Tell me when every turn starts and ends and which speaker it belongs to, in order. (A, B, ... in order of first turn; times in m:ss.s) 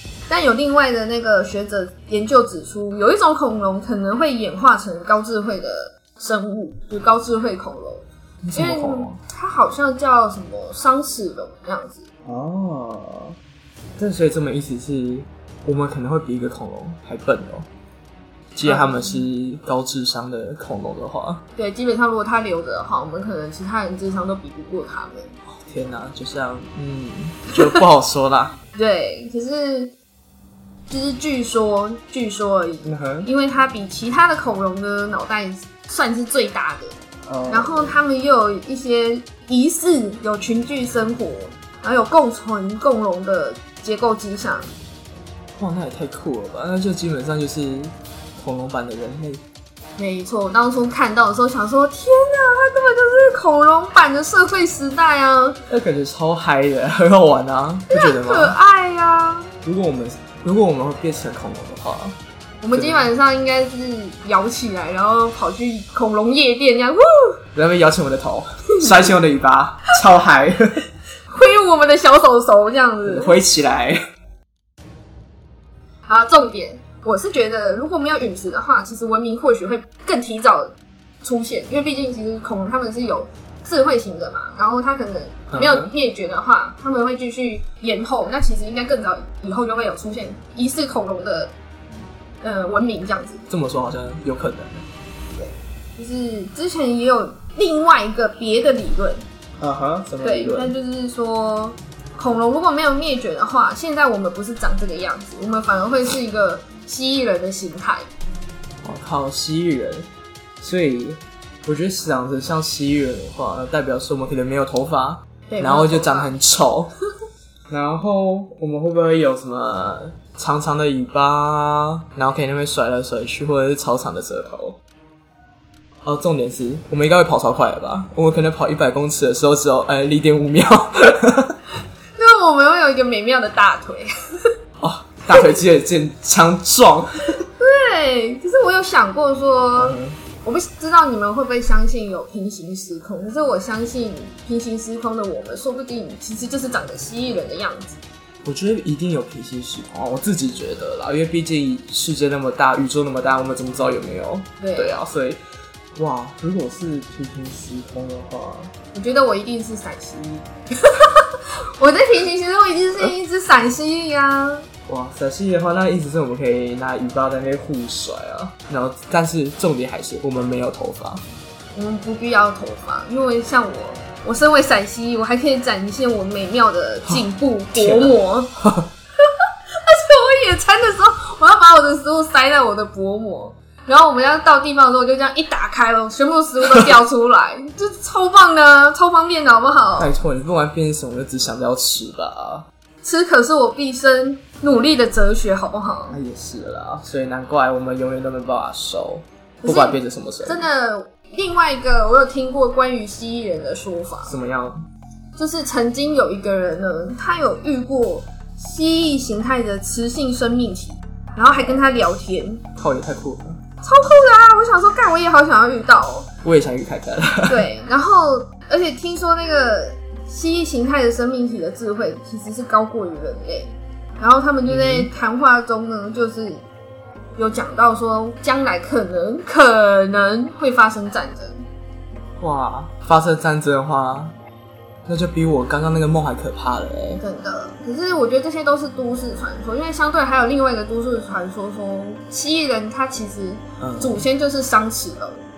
0:00.3-0:12.0 A
0:08.4-0:09.2 B
0:12.2-0:13.4 B
0:14.0-0:17.7 B
0:18.5-0:21.4 B
0:18.6-0:19.2 A
0:21.6-0:25.3 A
0:25.5-0:28.6 B
0:28.7-0:29.9 A
0:30.9-0:37.0 A
0:32.8-0:33.3 B
0:37.3-0:38.0 B
0:37.5-0:44.7 A
0:45.6-0:49.4 B
0:50.0-0:55.6 A
0:55.7-0:58.5 B
0:57.9-0:59.5 A
0:59.6-1:02.2 B
1:02.6-1:07.4 A
1:02.7-1:03.1 B
1:07.5-1:10.8 B
1:11.3-1:13.4 A
1:13.0-1:14.0 B
1:16.1-1:31.5 A
1:25.5-1:25.9 B
1:32.4-1:33.4 A
1:33.5-1:34.8 B
1:35.3-1:39.2 A
1:39.6-1:40.7 B
1:40.2-1:48.0 A
1:48.8-1:50.1 B
1:50.6-1:56.9 B
1:55.5-1:56.3 A
1:57.7-2:04.8 B
2:06.0-2:11.6 B
2:12.2-2:14.5 A
2:14.8-2:17.4 B
2:17.6-2:28.0 A
2:19.8-2:20.2 B
2:28.4-2:35.4 B
2:34.6-2:35.0 A
2:36.0-2:38.7 B
2:38.9-2:44.6 A
2:44.9-2:51.2 B
2:51.7-2:58.5 A
2:57.7-2:58.9 B
2:59.8-3:10.1 A
3:10.0-3:12.7 B
3:13.0-3:16.2 A
3:16.1-3:20.6 B
3:19.6-3:24.3 A
3:24.2-3:24.8 B
3:25.4-3:32.6 A
3:32.8-3:33.6 B
3:33.8-3:36.3 A
3:36.4-3:37.7 B
3:37.5-3:46.6 A
3:44.6-3:45.1 B
3:47.4-3:51.6 A
3:52.4-3:54.3 B
3:55.1-3:57.2 B
3:57.2-4:05.4 A
4:03.8-4:04.2 B